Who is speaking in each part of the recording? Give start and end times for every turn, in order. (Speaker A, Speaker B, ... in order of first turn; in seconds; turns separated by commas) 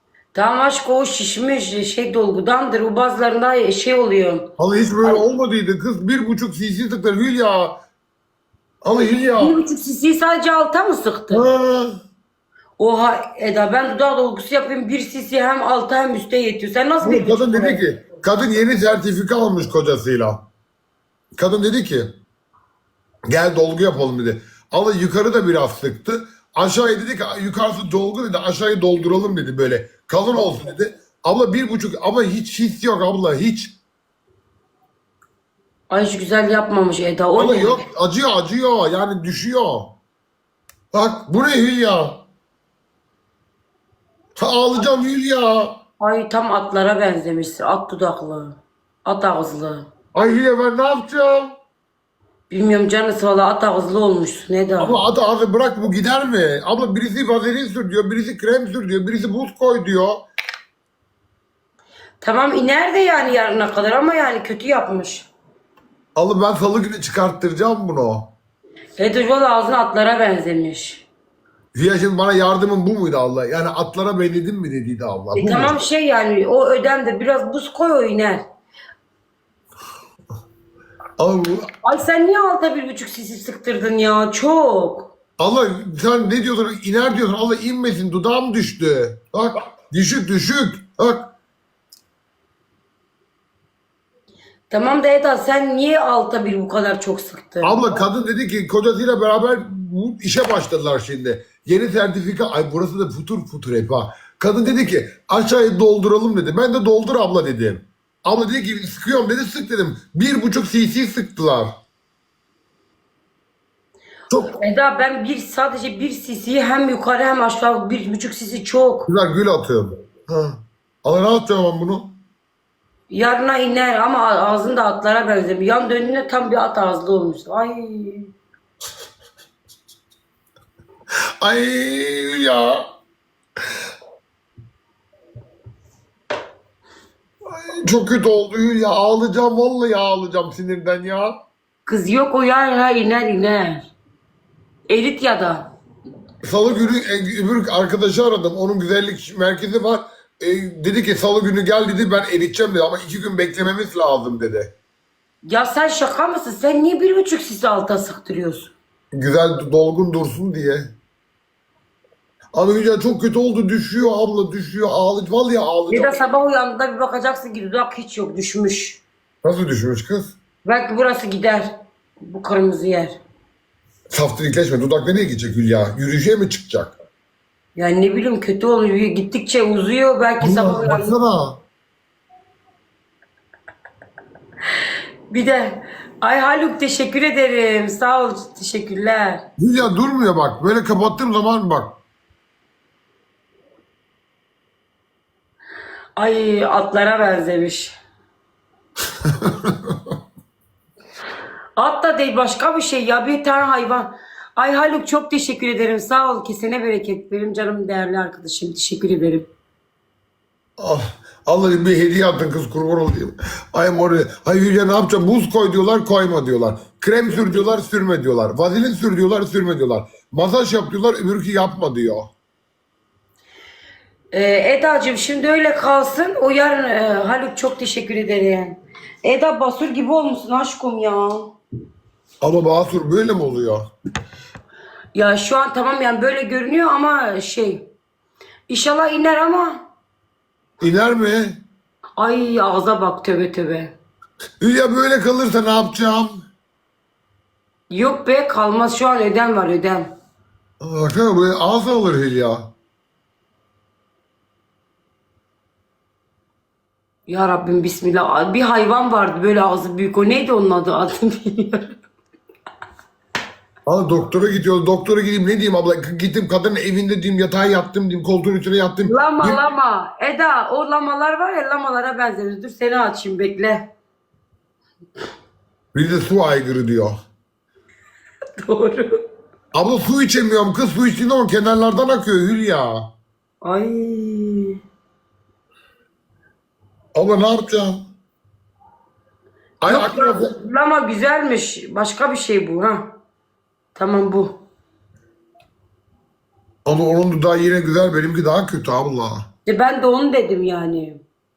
Speaker A: 0.3-4.5, Speaker B: 4.6-7.8, Speaker B: 8.8-9.6, Speaker A: 9.3-11.5, Speaker B: 11.3-11.9, Speaker A: 12.8-17.8, Speaker B: 17.0-20.4, Speaker B: 21.4-22.1, Speaker B: 23.3-33.8, Speaker A: 35.9-37.8, Speaker B: 37.4-40.0, Speaker B: 40.9-42.2, Speaker B: 44.4-45.7, Speaker A: 46.0-49.9, Speaker B: 50.1-51.5, Speaker A: 52.5-55.0, Speaker B: 54.8-60.2, Speaker A: 62.2-65.3, Speaker B: 66.2-68.3, Speaker A: 69.0-71.1, Speaker B: 71.7-75.8, Speaker A: 75.3-78.4, Speaker B: 81.2-81.7, Speaker A: 81.8-85.1, Speaker B: 85.4-91.3, Speaker A: 94.7-98.0, Speaker B: 97.6-111.7, Speaker B: 114.3-114.5, Speaker A: 114.5-119.1, Speaker B: 119.1-122.2, Speaker A: 123.1-128.3, Speaker B: 131.4-132.9, Speaker B: 137.5-141.3, Speaker A: 141.9-143.9, Speaker A: 144.9-145.7, Speaker B: 146.4-154.7, Speaker A: 155.4-158.7, Speaker B: 159.1-160.9, Speaker B: 162.6-166.2, Speaker A: 165.9-169.0, Speaker B: 169.4-170.4, Speaker A: 170.6-173.2, Speaker B: 174.1-177.0, Speaker A: 177.8-181.2, Speaker B: 180.4-181.6, Speaker A: 185.3-189.5, Speaker B: 189.6-192.0, Speaker A: 196.2-198.0, Speaker B: 199.4-199.7, Speaker A: 201.8-209.5, Speaker B: 210.8-222.3, Speaker A: 224.3-231.6, Speaker B: 232.4-233.8, Speaker A: 235.2-237.9, Speaker A: 238.7-239.8, Speaker B: 240.8-241.6, Speaker A: 242.2-244.0, Speaker B: 244.6-246.3, Speaker A: 247.9-250.1, Speaker B: 250.8-252.7, Speaker A: 257.3-261.9, Speaker B: 263.9-269.6, Speaker A: 269.1-273.9, Speaker B: 275.9-277.2, Speaker A: 278.6-279.1, Speaker B: 279.7-283.0, Speaker A: 283.6-284.8, Speaker B: 287.1-288.0, Speaker B: 289.8-290.5, Speaker A: 289.9-293.2, Speaker A: 294.0-294.6, Speaker B: 296.9-299.4, Speaker A: 299.7-301.2